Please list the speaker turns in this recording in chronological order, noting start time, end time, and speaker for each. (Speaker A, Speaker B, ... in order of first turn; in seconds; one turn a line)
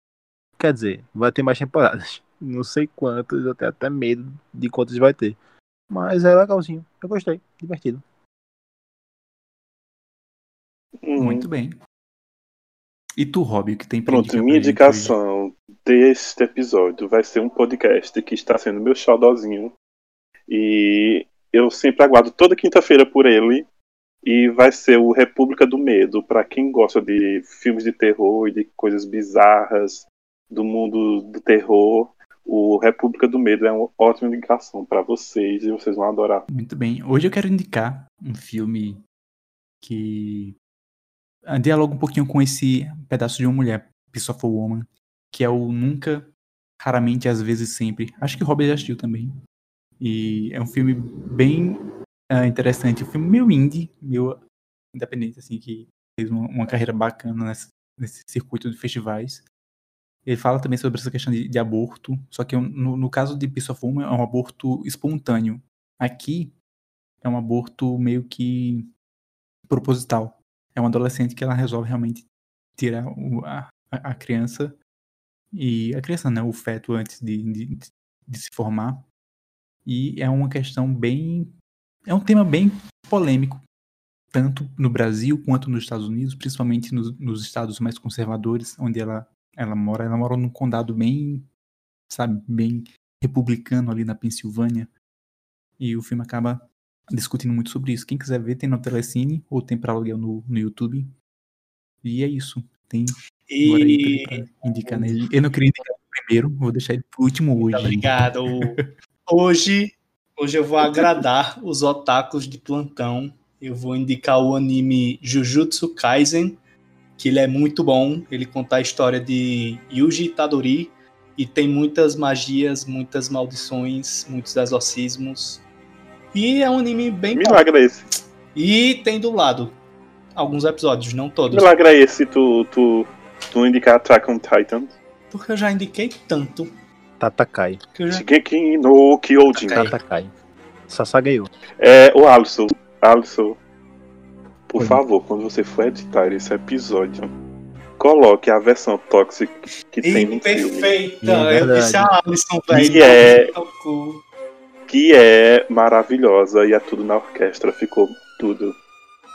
Speaker A: 0.6-5.4
Speaker A: 5.9-8.0
Speaker B: 11.1-11.5
Speaker C: 11.2-11.8
Speaker C: 13.2-15.2
Speaker B: 14.1-19.7
Speaker B: 20.5-23.7
Speaker B: 24.2-36.4
Speaker C: 36.5-39.0
Speaker C: 39.8-40.6
Speaker C: 41.5-49.3
Speaker C: 50.0-54.4
Speaker C: 54.9-59.4
Speaker C: 60.3-66.5
Speaker C: 67.2-68.9
Speaker C: 69.7-72.2
Speaker C: 72.8-74.8
Speaker C: 75.5-79.1
Speaker C: 79.9-81.5
Speaker C: 82.1-83.6
Speaker C: 84.3-91.5
Speaker C: 92.1-94.9
Speaker C: 95.8-101.1
Speaker C: 102.0-108.8
Speaker D: 103.5-105.2
Speaker D: 107.6-116.6
Speaker D: 117.2-125.6
Speaker D: 126.3-127.7
Speaker B: 127.3-128.1
Speaker D: 128.5-129.8
Speaker D: 130.4-131.7
Speaker B: 131.5-134.9
Speaker D: 135.3-136.7
Speaker A: 137.2-137.8
Speaker D: 137.9-138.2
Speaker B: 138.1-140.0
Speaker A: 139.7-140.3
Speaker A: 140.9-141.5
Speaker B: 141.8-143.6
Speaker B: 144.7-147.3
Speaker B: 148.0-150.9
Speaker D: 150.0-154.2
Speaker A: 151.2-152.1
Speaker B: 152.7-153.5
Speaker B: 154.9-158.8